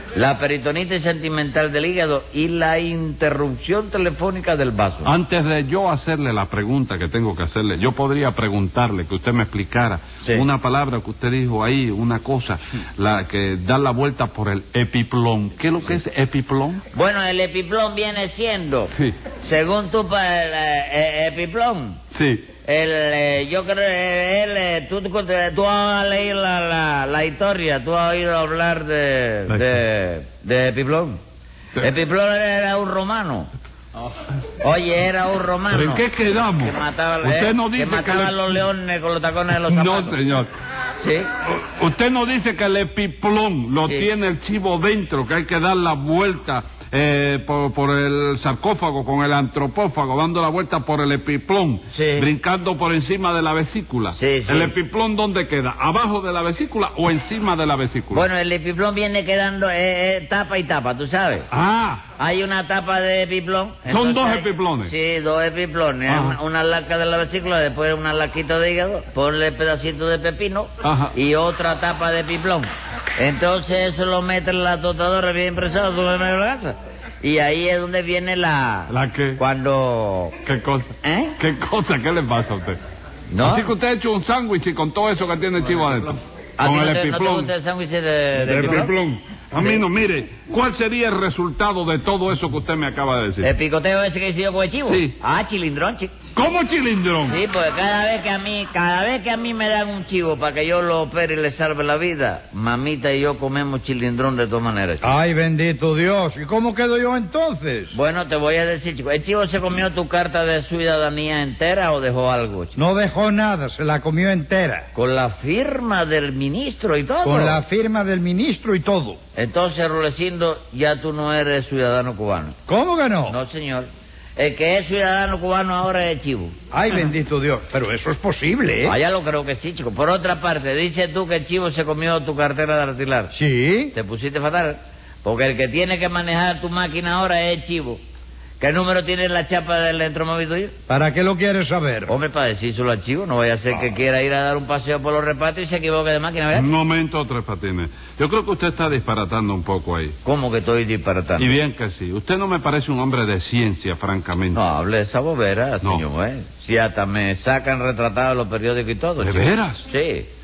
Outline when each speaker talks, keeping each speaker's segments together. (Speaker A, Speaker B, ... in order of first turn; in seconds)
Speaker A: 0.1-5.1, 16.9-22.0, 22.6-31.2, 31.8-33.5, 34.6-40.2, 41.0-41.3, 51.9-52.3, 54.1-54.7, 58.1-61.5, 62.2-80.4, 81.0-81.3, 83.3-83.7, 86.6-88.9, 89.6-89.8, 93.4-96.1, 97.3-105.1, 107.9-112.7, 114.9-117.6, 119.4-122.5, 123.3-126.5, 128.9-133.3, 133.9-138.0, 138.6-140.7, 142.1-146.7, 150.2-151.6, 154.5-160.3
Speaker B: 5.0-16.8, 18.9-19.2, 22.1-22.5, 35.7-38.5, 39.6-40.5, 41.5-58.2, 61.5-62.0, 63.9-64.9, 66.1-66.4, 70.8-71.1, 78.9-79.4, 80.4-82.8, 83.4-87.5, 88.3-93.5, 94.8-95.2, 96.4-97.4, 146.5-150.1, 151.4-154.6, 159.2-159.9
Speaker C: 105.0-108.0, 112.8-114.9, 117.2-119.2, 122.7-123.4, 126.7-128.9, 133.3-133.9, 140.9-142.1